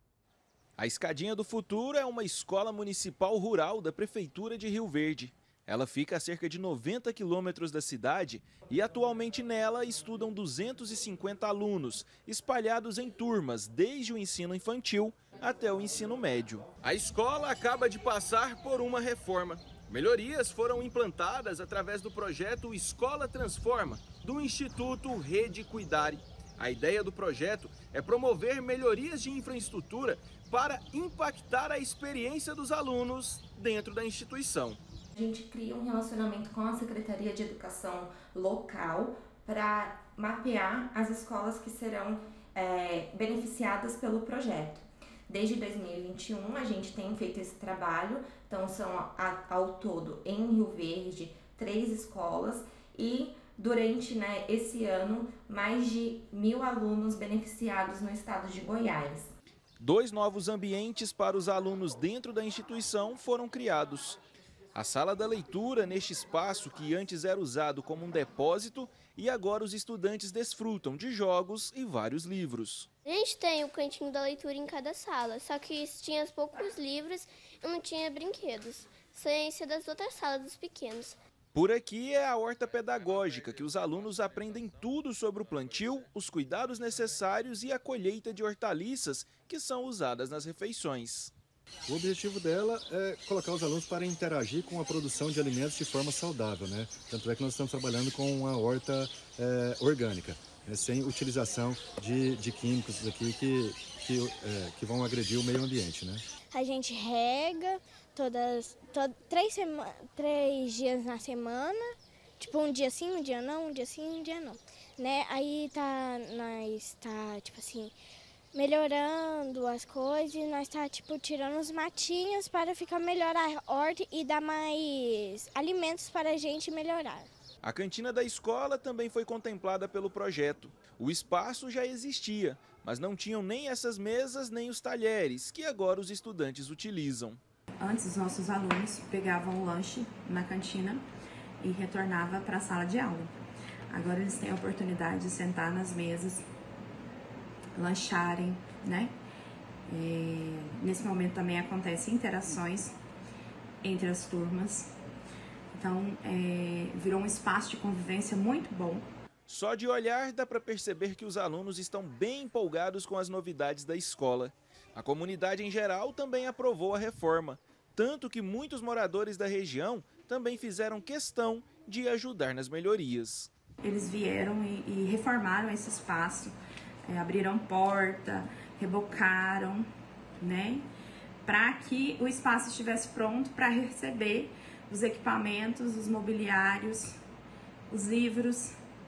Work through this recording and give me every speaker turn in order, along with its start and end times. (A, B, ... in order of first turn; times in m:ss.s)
0:00.8-0:34.8 A
0:35.2-0:59.4 B
0:59.8-1:04.2 A
1:04.8-1:12.9 A
1:13.0-1:21.2 C
1:21.5-1:31.3 A
1:31.9-1:46.2 D
1:46.5-1:51.9 E
1:52.4-1:57.9 E
1:58.5-2:07.3 E
2:07.6-2:17.4 A
2:17.8-2:21.0 F
2:21.6-2:23.3 F
2:23.9-2:26.4 F
2:27.8-2:29.1 F
2:29.9-2:32.9 F
2:33.8-2:34.9 F
2:35.7-2:39.1 F
2:39.5-2:53.5 A
2:53.8-2:56.5 F
2:57.1-2:59.9 F
3:00.4-3:00.9 F
3:01.4-3:07.1 F
3:07.9-3:08.7 F